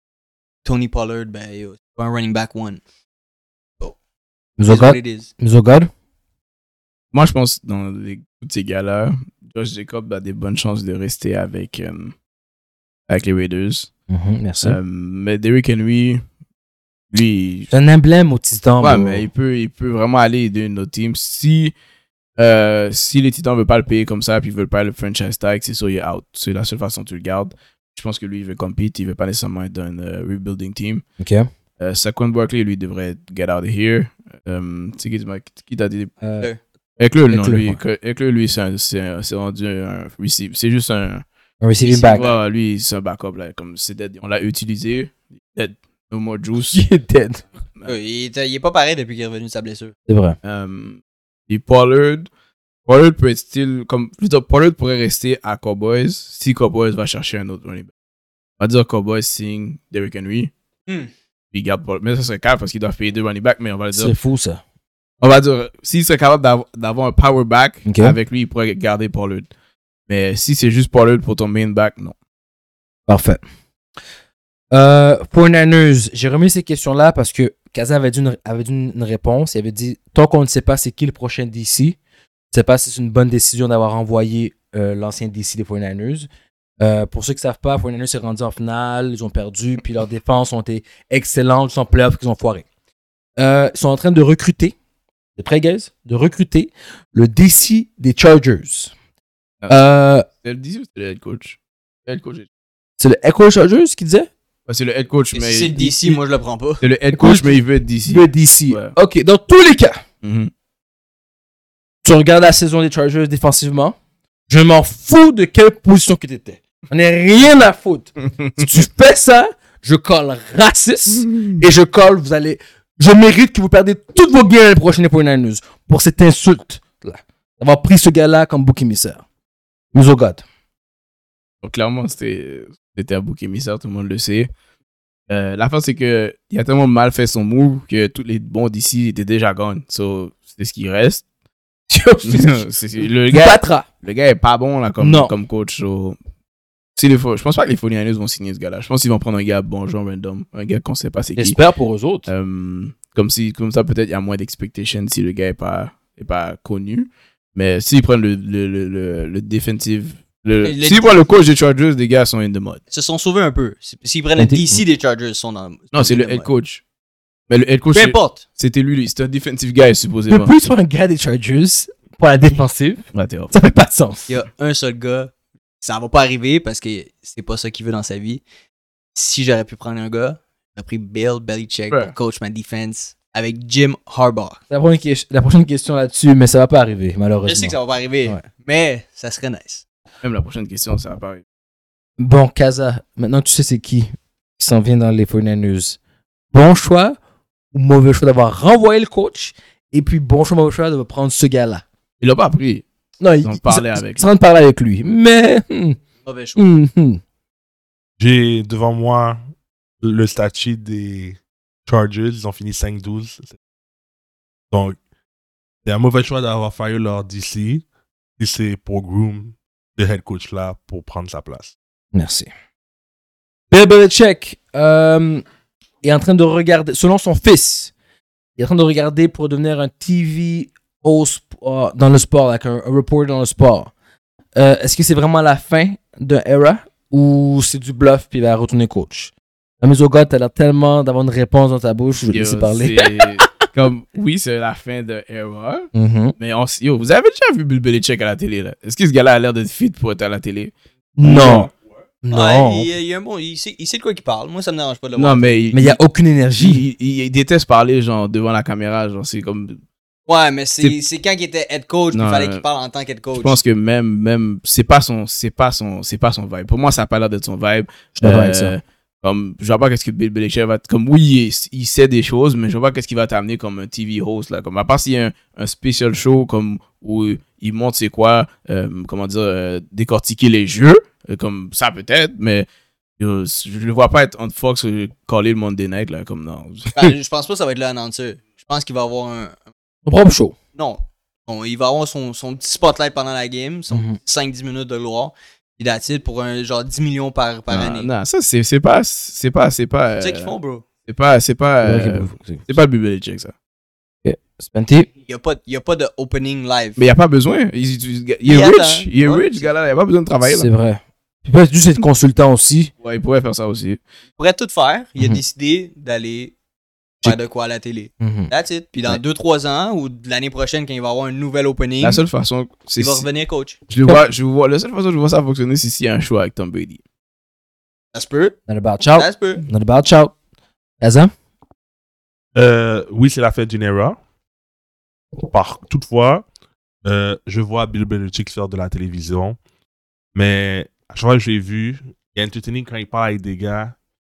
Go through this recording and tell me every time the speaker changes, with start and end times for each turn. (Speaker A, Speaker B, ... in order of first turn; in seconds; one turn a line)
Speaker A: 0.7-2.8
Speaker B: 4.6-5.9
Speaker A: 4.7-5.3
Speaker C: 7.1-12.2
Speaker C: 13.1-13.9
Speaker B: 14.1-14.8
Speaker C: 14.6-16.2
Speaker C: 17.1-17.7
Speaker B: 17.7-19.2
Speaker C: 18.8-21.7
Speaker C: 22.4-31.0
Speaker B: 31.2-31.5
Speaker C: 31.8-36.1
Speaker B: 36.2-36.5
Speaker C: 37.0-41.2
Speaker B: 37.3-37.8
Speaker B: 41.6-42.3
Speaker A: 41.9-42.4
Speaker C: 42.0-46.8
Speaker B: 46.7-47.4
Speaker A: 47.9-49.9
Speaker B: 50.1-50.4
Speaker C: 50.4-52.3
Speaker C: 52.9-57.9
Speaker C: 58.6-60.5
Speaker C: 61.5-64.2
Speaker B: 63.9-64.6
Speaker C: 65.2-69.5
Speaker B: 67.9-68.2
Speaker C: 70.1-72.2
Speaker B: 73.1-73.4
Speaker B: 74.7-82.0
Speaker B: 82.5-86.3
Speaker B: 86.8-92.7
Speaker B: 93.4-94.8
Speaker B: 95.4-98.9
Speaker B: 99.7-100.3
Speaker C: 100.3-102.5
Speaker B: 103.0-104.3
Speaker C: 104.7-106.2
Speaker A: 105.3-106.8
Speaker C: 106.8-109.0
Speaker B: 107.1-110.0
Speaker C: 110.2-110.5
Speaker B: 112.0-114.0
Speaker B: 114.5-129.2
Speaker B: 129.9-130.4
Speaker C: 131.6-134.5
Speaker C: 135.3-141.2
Speaker B: 141.9-143.9
Speaker C: 142.2-146.2
Speaker B: 145.0-145.3
Speaker C: 147.0-151.6
Speaker B: 151.4-152.3
Speaker C: 152.3-162.8
Speaker A: 160.6-161.2
Speaker A: 162.9-166.5
Speaker B: 164.4-164.8
Speaker C: 165.9-166.8
Speaker C: 167.5-170.5
Speaker A: 167.9-168.4
Speaker B: 170.3-174.3
Speaker C: 173.1-173.5
Speaker A: 174.3-178.4
Speaker A: 179.2-184.6
Speaker C: 181.9-182.2
Speaker B: 184.7-188.4
Speaker A: 187.4-189.8
Speaker C: 190.2-191.4
Speaker B: 192.2-196.0
Speaker B: 196.5-197.2
Speaker B: 197.7-201.8
Speaker C: 202.2-202.8
Speaker B: 203.2-206.0
Speaker C: 203.4-204.2
Speaker A: 206.2-206.6
Speaker B: 206.6-207.2
Speaker D: 208.2-209.4
Speaker D: 210.0-213.6
Speaker D: 214.7-215.0
Speaker D: 215.8-217.8
Speaker D: 218.4-221.7
Speaker B: 222.1-222.5
Speaker B: 223.7-225.4
Speaker B: 226.0-227.9
Speaker B: 228.6-233.9
Speaker B: 234.6-243.5
Speaker C: 242.3-250.7
Speaker B: 245.9-246.3
Speaker B: 251.2-251.7
Speaker C: 251.2-251.7
Speaker B: 252.2-252.9
Speaker A: 252.3-255.5
Speaker C: 255.2-256.0
Speaker B: 255.7-256.8
Speaker C: 256.6-259.8
Speaker A: 260.3-263.6
Speaker C: 262.1-262.6
Speaker C: 263.4-282.7
Speaker B: 268.2-268.8
Speaker C: 283.2-287.1
Speaker A: 286.9-289.6
Speaker B: 290.1-290.6
Speaker A: 290.8-298.1
Speaker B: 293.9-294.2
Speaker C: 297.7-300.5
Speaker A: 300.2-300.9
Speaker C: 301.1-303.5
Speaker B: 301.8-302.6
Speaker B: 304.2-305.1
Speaker A: 305.3-307.0
Speaker C: 307.0-310.7
Speaker A: 308.4-309.7
Speaker B: 310.4-312.9
Speaker C: 313.0-314.0
Speaker A: 314.4-316.5
Speaker A: 317.2-322.2
Speaker B: 318.2-318.5
Speaker C: 322.0-323.3
Speaker A: 323.0-323.8
Speaker C: 323.9-327.0
Speaker A: 328.1-328.6
Speaker B: 328.7-330.4
Speaker A: 329.1-329.6
Speaker B: 331.0-331.3
Speaker D: 332.6-334.2
Speaker D: 335.4-336.5
Speaker D: 337.0-339.6
Speaker D: 340.4-343.9